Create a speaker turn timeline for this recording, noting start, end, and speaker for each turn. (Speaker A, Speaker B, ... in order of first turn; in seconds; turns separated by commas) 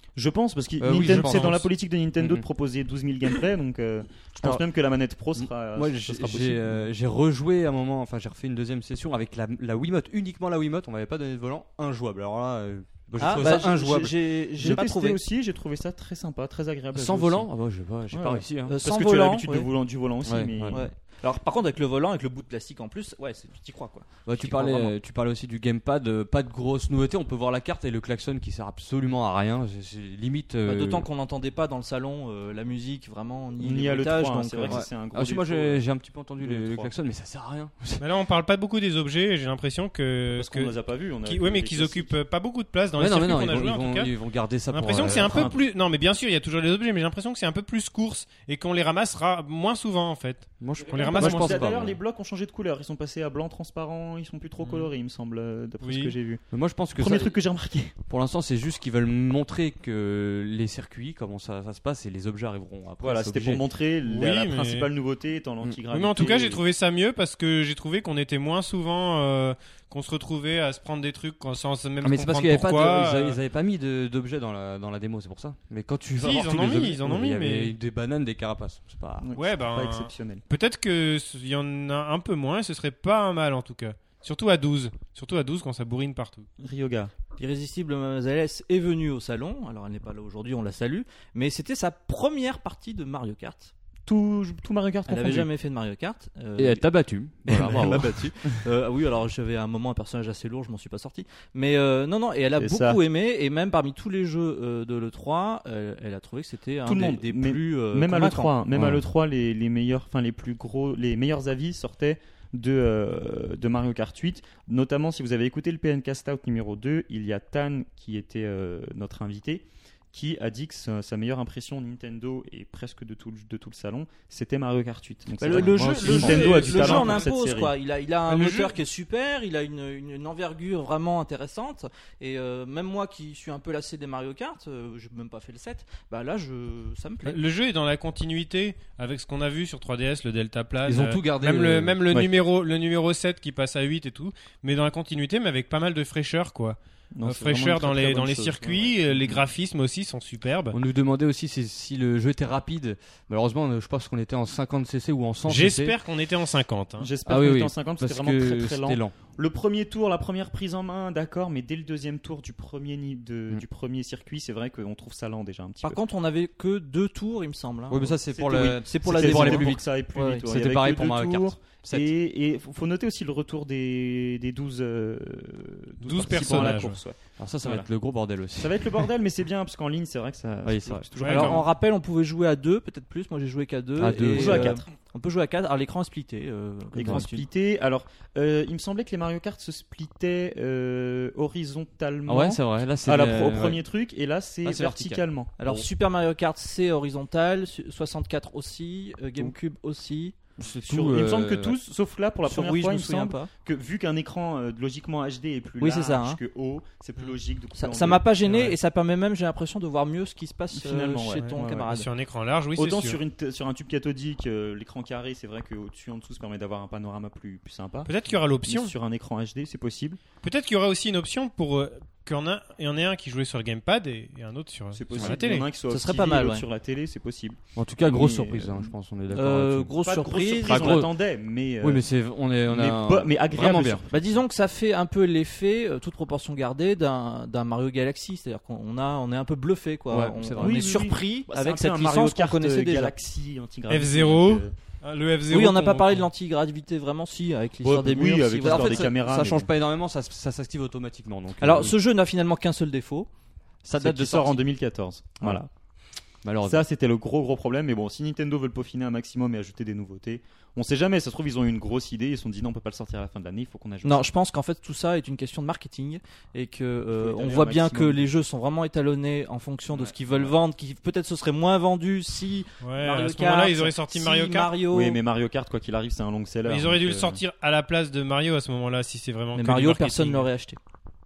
Speaker A: 0.1-6.9, Speaker B: 0.8-1.7, Speaker B: 2.2-2.4, Speaker B: 5.4-14.8, Speaker C: 13.2-15.2, Speaker A: 13.3-13.6, Speaker A: 14.6-17.5, Speaker B: 16.9-18.8, Speaker A: 18.1-20.8, Speaker C: 18.7-19.7, Speaker B: 20.2-20.8, Speaker C: 20.7-24.9, Speaker B: 24.2-31.1, Speaker C: 30.7-34.8, Speaker A: 33.6-35.8, Speaker B: 34.7-38.0, Speaker A: 36.4-36.9, Speaker D: 38.0-40.7, Speaker A: 40.3-42.1, Speaker D: 41.2-44.1, Speaker B: 43.0-45.5, Speaker D: 44.7-51.6, Speaker A: 45.0-45.6, Speaker B: 50.6-52.0, Speaker A: 50.9-56.4, Speaker D: 54.6-54.9, Speaker D: 55.8-56.1, Speaker B: 56.5-57.3, Speaker A: 57.0-58.0, Speaker B: 58.1-63.6, Speaker A: 63.0-66.6, Speaker D: 64.0-64.9, Speaker D: 65.9-73.4, Speaker B: 72.0-79.3, Speaker D: 76.2-77.7, Speaker A: 79.2-80.4, Speaker D: 79.3-86.5, Speaker A: 86.6-87.1, Speaker C: 87.4-93.7, Speaker A: 94.0-95.5, Speaker C: 95.1-96.8, Speaker B: 96.6-98.3, Speaker C: 97.5-108.5, Speaker A: 102.5-103.0, Speaker A: 106.8-127.8, Speaker B: 108.7-109.0, Speaker C: 125.4-137.4, Speaker B: 125.5-126.7, Speaker D: 126.0-127.3, Speaker D: 128.3-128.8, Speaker D: 137.2-150.8, Speaker B: 140.8-142.0, Speaker A: 147.1-149.4, Speaker B: 150.7-155.9, Speaker D: 155.4-157.1, Speaker A: 157.0-166.0, Speaker B: 157.2-159.1, Speaker C: 165.8-168.2, Speaker B: 167.9-169.8, Speaker A: 168.3-177.9, Speaker C: 168.8-170.4, Speaker B: 170.4-172.1, Speaker D: 176.0-177.0, Speaker B: 176.3-176.8, Speaker B: 177.4-179.0, Speaker A: 178.6-181.7, Speaker B: 180.6-181.1, Speaker D: 181.2-181.6, Speaker C: 181.2-187.4, Speaker B: 184.0-184.8, Speaker A: 184.3-184.8, Speaker A: 186.9-195.9, Speaker B: 192.3-193.8, Speaker B: 194.6-195.2, Speaker C: 195.6-200.3, Speaker B: 200.6-201.8, Speaker A: 200.8-208.2, Speaker C: 202.4-203.5, Speaker C: 205.8-206.4, Speaker C: 207.8-212.1, Speaker D: 208.4-208.8, Speaker A: 210.7-211.9, Speaker D: 211.4-213.2, Speaker A: 212.8-220.2, Speaker D: 218.1-218.9, Speaker D: 220.4-225.7, Speaker A: 224.9-228.9, Speaker C: 225.9-226.6, Speaker B: 227.8-229.9, Speaker C: 229.3-231.0, Speaker A: 230.0-232.1, Speaker B: 230.6-231.1, Speaker B: 231.8-234.0, Speaker A: 232.6-234.4, Speaker C: 234.1-243.1, Speaker B: 240.1-240.8, Speaker A: 240.6-244.7, Speaker D: 243.9-246.3, Speaker C: 245.5-249.1, Speaker A: 247.8-249.7, Speaker B: 248.6-251.9, Speaker C: 251.6-253.3, Speaker B: 253.8-254.6, Speaker A: 254.0-255.7, Speaker B: 256.4-256.8, Speaker A: 256.6-264.3, Speaker C: 264.0-275.2, Speaker A: 267.1-268.3, Speaker A: 269.9-270.5, Speaker D: 272.8-274.7, Speaker A: 274.9-277.4, Speaker D: 276.7-280.5, Speaker C: 279.5-280.8